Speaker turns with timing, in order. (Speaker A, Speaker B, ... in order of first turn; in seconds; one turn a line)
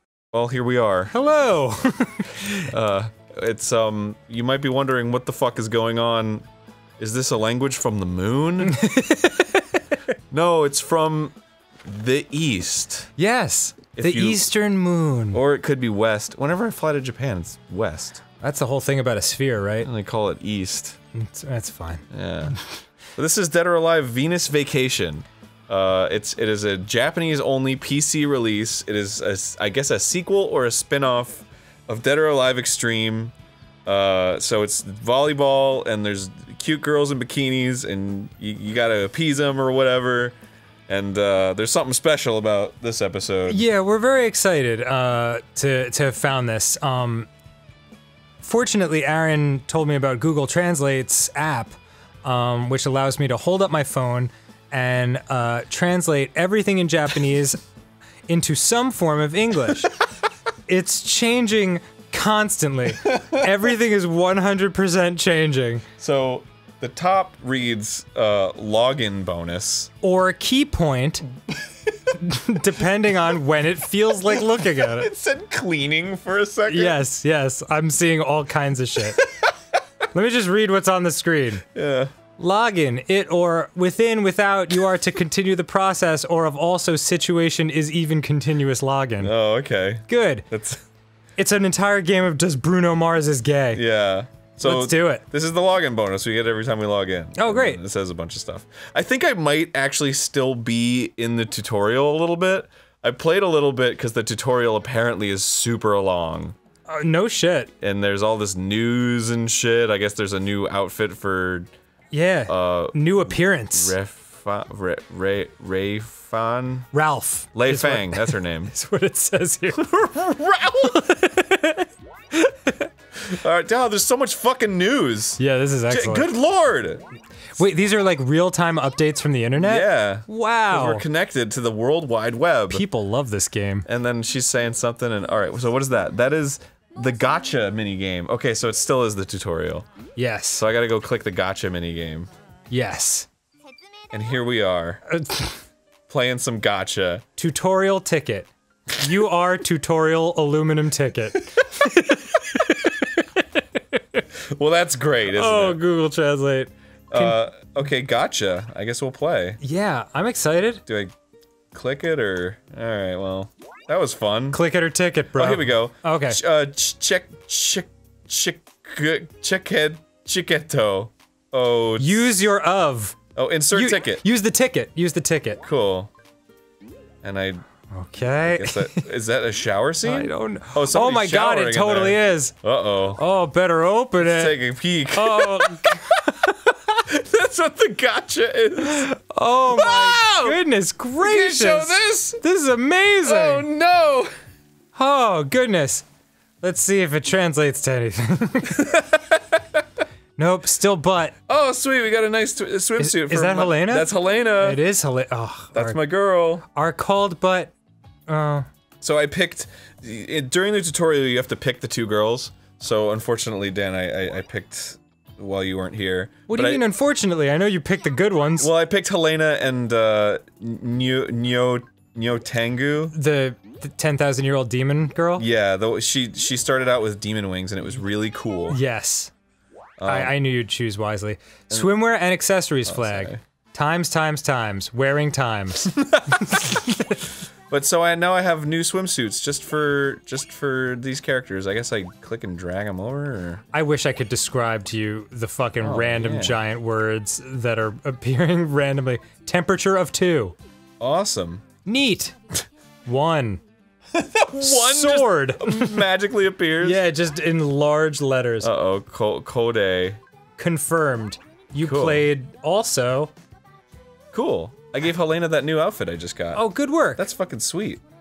Speaker A: 0.3-1.1
Speaker B: 1.1-2.7
Speaker A: 2.7-6.5
Speaker A: 7.0-8.8
Speaker B: 8.6-9.8
Speaker A: 10.3-13.1
Speaker B: 13.2-15.4
Speaker A: 14.0-14.5
Speaker A: 15.3-18.2
Speaker B: 18.4-19.9
Speaker A: 19.8-21.0
Speaker B: 21.1-22.1
Speaker A: 22.1-22.6
Speaker A: 23.1-33.3
Speaker A: 33.9-40.4
Speaker A: 40.9-43.6
Speaker B: 43.5-47.3
Speaker B: 48.4-51.7
Speaker B: 52.2-57.6
Speaker B: 58.3-59.9
Speaker B: 60.7-65.8
Speaker A: 66.0-69.9
Speaker B: 70.0-71.3
Speaker B: 72.2-75.1
Speaker A: 74.3-77.0
Speaker B: 76.7-79.2
Speaker B: 80.1-81.7
Speaker A: 81.7-82.1
Speaker B: 82.4-89.3
Speaker A: 89.2-90.8
Speaker B: 90.1-90.5
Speaker B: 91.4-93.8
Speaker A: 93.7-106.5
Speaker B: 94.6-95.2
Speaker B: 97.4-97.8
Speaker B: 106.9-107.7
Speaker A: 107.8-111.7
Speaker B: 112.1-113.9
Speaker A: 112.5-116.9
Speaker B: 116.9-120.0
Speaker A: 117.5-118.7
Speaker A: 119.8-121.0
Speaker B: 120.8-122.9
Speaker A: 123.3-125.4
Speaker B: 125.4-126.3
Speaker A: 125.9-127.0
Speaker B: 127.6-131.0
Speaker A: 129.6-132.8
Speaker B: 132.7-133.9
Speaker A: 133.9-139.9
Speaker B: 140.2-140.6
Speaker A: 140.6-142.3
Speaker B: 142.7-143.3
Speaker A: 144.1-145.0
Speaker B: 145.1-145.6
Speaker A: 146.1-147.2
Speaker B: 147.4-154.2
Speaker A: 154.5-155.8
Speaker B: 155.3-157.4
Speaker A: 157.1-159.6
Speaker B: 159.6-160.8
Speaker A: 160.9-161.1
Speaker A: 161.7-164.6
Speaker B: 164.5-166.4
Speaker A: 165.3-172.3
Speaker B: 172.0-173.2
Speaker A: 173.3-174.2
Speaker B: 173.7-175.6
Speaker A: 175.6-176.1
Speaker A: 177.2-177.7
Speaker B: 177.9-179.1
Speaker A: 178.4-183.2
Speaker B: 180.0-182.5
Speaker B: 183.2-184.6
Speaker A: 184.2-186.0
Speaker B: 185.1-186.8
Speaker A: 187.1-189.1
Speaker B: 188.8-193.7
Speaker A: 189.7-190.6
Speaker A: 191.2-192.4
Speaker A: 193.2-194.3
Speaker B: 194.9-196.1
Speaker B: 196.6-199.0
Speaker B: 200.4-201.3
Speaker A: 201.5-204.8
Speaker B: 203.0-206.0
Speaker A: 205.7-206.6
Speaker B: 206.7-207.7
Speaker B: 208.3-208.7
Speaker A: 209.0-216.8
Speaker B: 216.5-218.7
Speaker A: 218.6-223.1
Speaker B: 223.1-225.5
Speaker A: 225.4-228.8
Speaker B: 228.7-229.3
Speaker A: 230.0-230.4
Speaker B: 230.1-237.3
Speaker A: 232.9-233.4
Speaker A: 235.9-236.7
Speaker A: 237.7-243.6
Speaker B: 243.7-250.6
Speaker A: 245.8-246.6
Speaker A: 251.0-251.6
Speaker B: 251.8-252.3
Speaker B: 253.1-253.6
Speaker A: 254.1-257.0
Speaker B: 254.6-256.1
Speaker B: 256.8-258.7
Speaker A: 258.6-260.2
Speaker B: 260.6-263.3
Speaker A: 261.8-262.3
Speaker A: 264.3-266.6
Speaker B: 266.5-267.2
Speaker A: 267.2-268.0